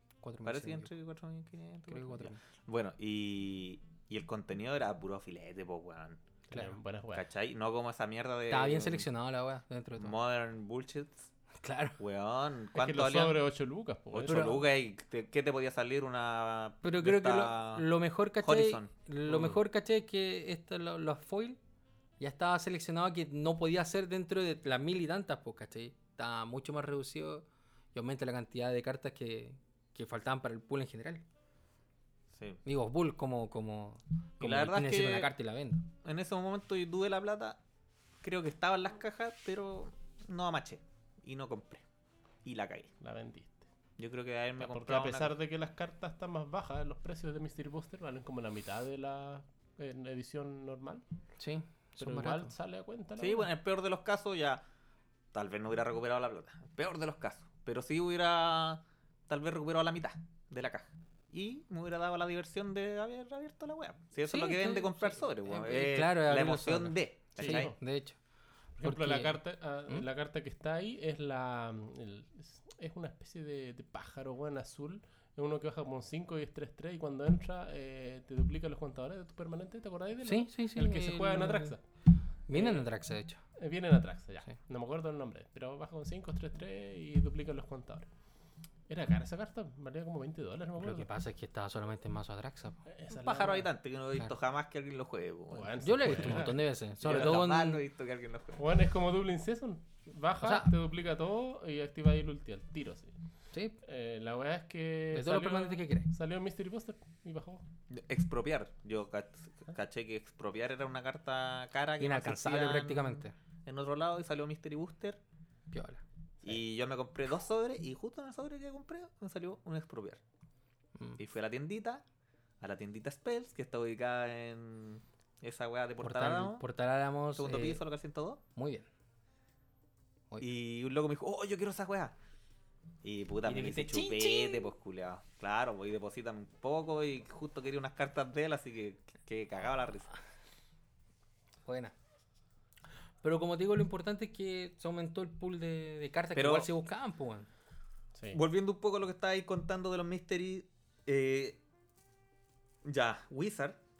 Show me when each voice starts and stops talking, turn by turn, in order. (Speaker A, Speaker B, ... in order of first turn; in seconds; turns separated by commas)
Speaker A: 0.2-0.9, Speaker B: 0.5-6.2, Speaker A: 1.9-2.4, Speaker C: 6.5-7.3, Speaker B: 7.1-9.1, Speaker A: 8.5-10.2, Speaker B: 10.0-11.3, Speaker A: 11.6-12.0, Speaker B: 12.0-13.4, Speaker C: 12.8-14.6, Speaker B: 14.1-17.9, Speaker A: 14.3-14.6, Speaker A: 16.8-21.6, Speaker B: 18.4-18.9, Speaker C: 19.3-19.6, Speaker A: 22.2-31.2, Speaker B: 32.3-32.6, Speaker A: 32.6-35.9, Speaker B: 34.4-35.3, Speaker B: 36.0-37.6, Speaker B: 38.2-41.9, Speaker B: 42.4-42.9, Speaker C: 43.0-43.6, Speaker B: 44.0-45.3, Speaker C: 44.6-51.0, Speaker A: 51.4-52.5, Speaker C: 52.0-53.5, Speaker B: 53.2-54.6, Speaker B: 55.3-67.7, Speaker A: 64.3-68.2, Speaker C: 67.4-67.8, Speaker C: 68.8-81.8, Speaker A: 68.8-69.4, Speaker A: 80.2-81.8, Speaker A: 82.5-83.4, Speaker C: 82.5-82.9, Speaker C: 83.6-88.1, Speaker C: 88.9-91.1, Speaker A: 90.8-92.8, Speaker C: 92.9-93.7, Speaker B: 93.1-96.4, Speaker C: 95.5-97.3, Speaker A: 95.8-97.8, Speaker B: 97.0-98.6, Speaker C: 98.6-103.1, Speaker A: 100.4-100.7, Speaker C: 103.8-107.6, Speaker A: 105.1-106.1, Speaker B: 107.9-115.2, Speaker A: 112.0-113.3, Speaker A: 115.7-116.0, Speaker B: 116.4-120.2, Speaker B: 121.2-122.0, Speaker B: 122.6-126.6, Speaker A: 126.0-127.8, Speaker B: 127.4-128.4, Speaker A: 128.6-128.9, Speaker B: 130.4-132.2, Speaker B: 133.0-140.1, Speaker A: 133.4-134.7, Speaker A: 141.7-141.9, Speaker A: 143.2-147.5, Speaker B: 146.4-146.7, Speaker B: 148.3-151.6, Speaker B: 152.8-153.8